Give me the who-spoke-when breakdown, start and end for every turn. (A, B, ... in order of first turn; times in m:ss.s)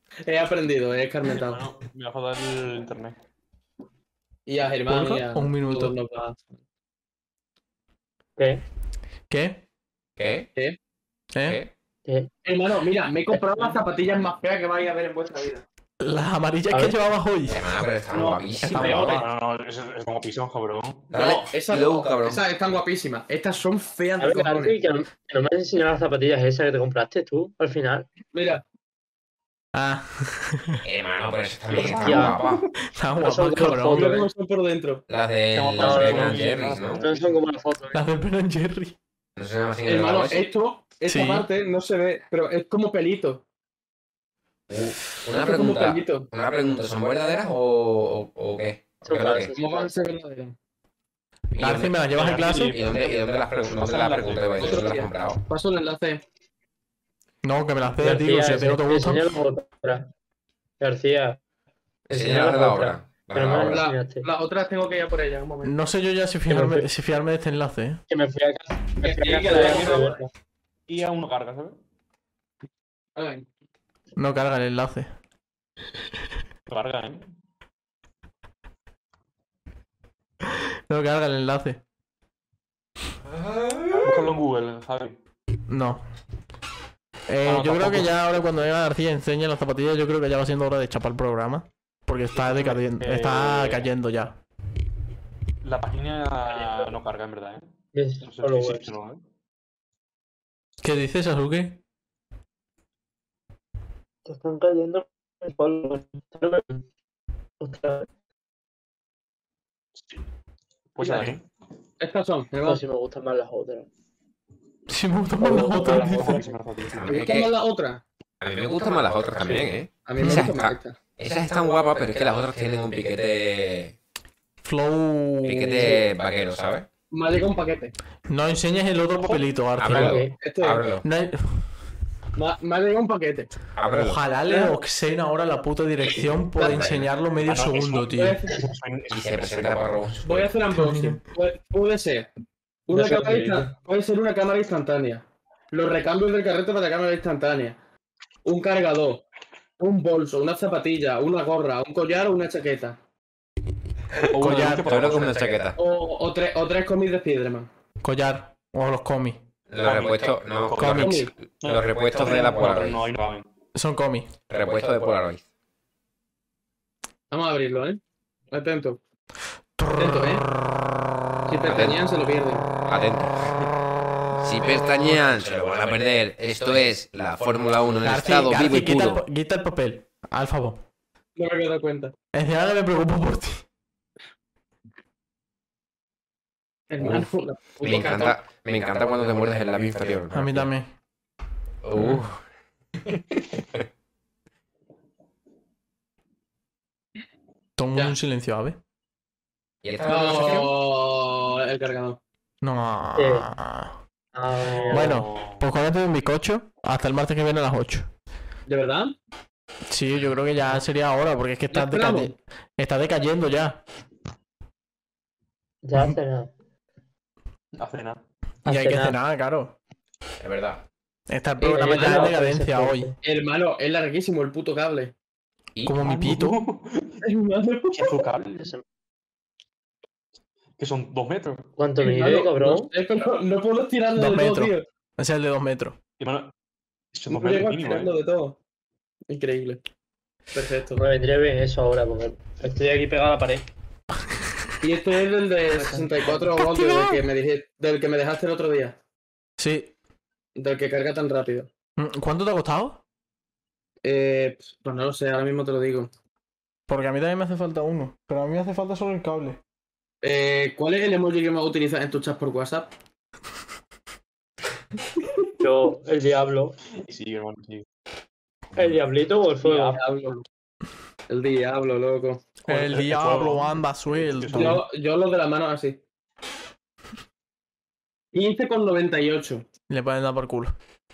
0:00.2-0:01.6 A
0:01.3-0:03.2 B
0:04.4-0:06.5 A
0:04.9-0:05.9 C
0:08.4-0:08.6 D
0:09.3-0:09.6 C
0:10.2-0:10.5 E
0:11.4-0:11.7 E
0:12.0-0:12.3 D
0:12.4-0:15.6 A
0:16.0-0:18.0 C
0:16.7-0:17.0 D
0:17.5-0:19.2 E
0:18.1-0:18.8 A
0:18.6-0:19.2 C
0:18.8-0:21.1 B
0:21.1-0:22.4 E
0:21.1-0:24.8 A
0:24.2-0:28.1 D
0:28.3-0:28.6 A
0:29.7-0:30.8 C
0:30.8-0:32.6 E
0:31.7-0:32.6 B
0:31.7-0:32.4 D
0:32.8-0:34.2 C
0:33.2-0:34.3 D
0:33.7-0:35.0 A
0:35.1-0:37.0 E
0:35.5-0:37.4 B
0:35.8-0:38.0 D
0:37.9-0:39.0 C
0:39.4-0:40.5 E
0:39.9-0:43.4 A
0:41.1-0:41.5 C
0:44.7-0:49.5 E
0:45.3-0:46.3 A
0:49.0-0:49.9 D
0:49.5-0:50.5 A
0:51.5-0:55.4 E
0:51.6-0:52.8 C
0:52.1-0:54.9 B
0:54.6-0:56.2 A
0:57.4-0:59.3 C
0:58.0-1:00.1 D
1:00.8-1:01.4 D
1:02.1-1:03.8 E
1:02.1-1:04.3 D
1:03.7-1:05.8 A
1:05.6-1:08.0 C
1:06.5-1:06.9 D
1:08.1-1:10.3 D
1:09.0-1:10.2 A
1:09.0-1:10.2 B
1:10.9-1:11.8 B
1:13.2-1:13.5 A
1:14.2-1:15.1 C
1:16.7-1:17.3 B
1:20.4-1:21.8 C
1:23.2-1:24.3 E
1:24.0-1:25.2 B
1:25.7-1:26.0 C
1:27.3-1:34.4 C
1:27.4-1:28.3 B
1:32.3-1:33.9 B
1:35.6-1:37.6 B
1:36.5-1:36.9 D
1:37.9-1:38.9 D
1:38.2-1:39.2 B
1:40.8-1:41.8 C
1:44.2-1:46.8 D
1:47.6-1:48.1 D
1:51.0-1:51.4 B
1:51.0-1:51.3 A
1:52.0-1:52.8 A
1:52.6-1:53.9 D
1:54.9-1:56.4 C
1:55.4-1:56.6 D
1:55.6-1:57.3 B
1:56.9-1:57.5 E
1:57.1-1:58.0 A
1:58.4-2:04.0 E
2:00.0-2:01.0 A
2:00.2-2:00.6 C
2:04.6-2:06.0 C
2:05.4-2:06.9 E
2:07.1-2:07.9 A
2:08.3-2:10.2 C
2:09.8-2:11.0 E
2:09.9-2:10.3 D
2:10.3-2:10.8 A
2:11.0-2:11.6 C
2:12.4-2:13.5 A
2:13.8-2:14.2 E
2:13.9-2:18.4 C
2:14.5-2:14.8 A
2:16.6-2:17.0 A
2:16.6-2:17.0 E
2:17.4-2:19.7 B
2:18.0-2:18.6 A
2:19.1-2:20.6 E
2:20.2-2:22.3 A
2:20.7-2:21.2 C
2:22.9-2:27.8 A
2:22.9-2:23.7 D
2:23.0-2:23.6 B
2:28.4-2:29.2 A
2:29.8-2:33.0 A
2:34.1-2:35.8 E
2:34.2-2:35.6 B
2:34.4-2:34.9 C
2:35.8-2:37.7 A
2:38.0-2:39.4 C
2:39.7-2:43.0 E
2:39.8-2:43.4 B
2:40.8-2:41.2 C
2:40.8-2:41.3 A
2:43.7-2:44.3 C
2:44.5-2:45.4 E
2:47.3-2:49.0 A
2:49.8-2:50.5 C
2:50.0-2:50.4 A
2:51.5-2:52.7 A
2:51.6-2:52.0 E
2:52.8-2:53.7 E
2:54.4-2:59.2 E
2:58.0-3:00.8 C
3:01.4-3:02.1 A
3:02.3-3:03.6 C
3:06.9-3:08.4 A
3:07.0-3:07.3 E
3:07.8-3:10.7 E
3:10.3-3:10.9 C
3:11.8-3:12.4 E
3:13.0-3:13.8 E
3:17.8-3:18.8 C
3:19.8-3:20.7 E
3:20.0-3:22.2 A
3:22.6-3:24.0 C
3:23.2-3:23.5 D
3:24.3-3:25.2 D
3:24.8-3:25.6 B
3:24.9-3:28.1 C
3:28.7-3:29.1 A
3:29.9-3:33.8 C
3:31.7-3:32.3 A
3:35.8-3:36.5 D
3:37.8-3:38.2 B
3:38.6-3:39.2 D
3:38.6-3:39.8 C
3:40.4-3:40.8 E
3:41.3-3:43.1 C
3:41.6-3:42.3 A
3:41.7-3:43.1 D
3:43.2-3:45.1 A
3:45.7-3:46.0 E
3:45.8-3:46.6 C
3:46.0-3:47.2 B
3:47.2-3:48.2 A
3:47.9-3:48.6 B
3:48.6-3:48.8 D
3:50.8-3:51.7 B
3:51.8-3:52.9 D
3:52.0-3:54.8 A
3:54.1-3:56.0 C
3:56.2-3:56.5 B
3:57.1-3:58.1 B
3:57.3-3:58.6 A
3:59.3-3:59.8 A
4:00.5-4:01.0 A
4:01.0-4:03.7 D
4:04.8-4:09.0 A
4:06.4-4:07.2 C
4:09.6-4:09.9 C
4:10.6-4:11.7 A
4:12.0-4:13.0 C
4:14.0-4:16.1 A
4:16.9-4:19.6 C
4:20.2-4:22.9 A
4:25.6-4:26.8 D
4:27.0-4:27.8 B
4:28.8-4:30.0 D
4:29.6-4:30.4 A
4:31.3-4:32.5 A
4:32.6-4:34.8 C
4:32.7-4:34.8 B
4:34.5-4:36.0 A
4:38.3-4:39.6 A
4:39.9-4:40.8 C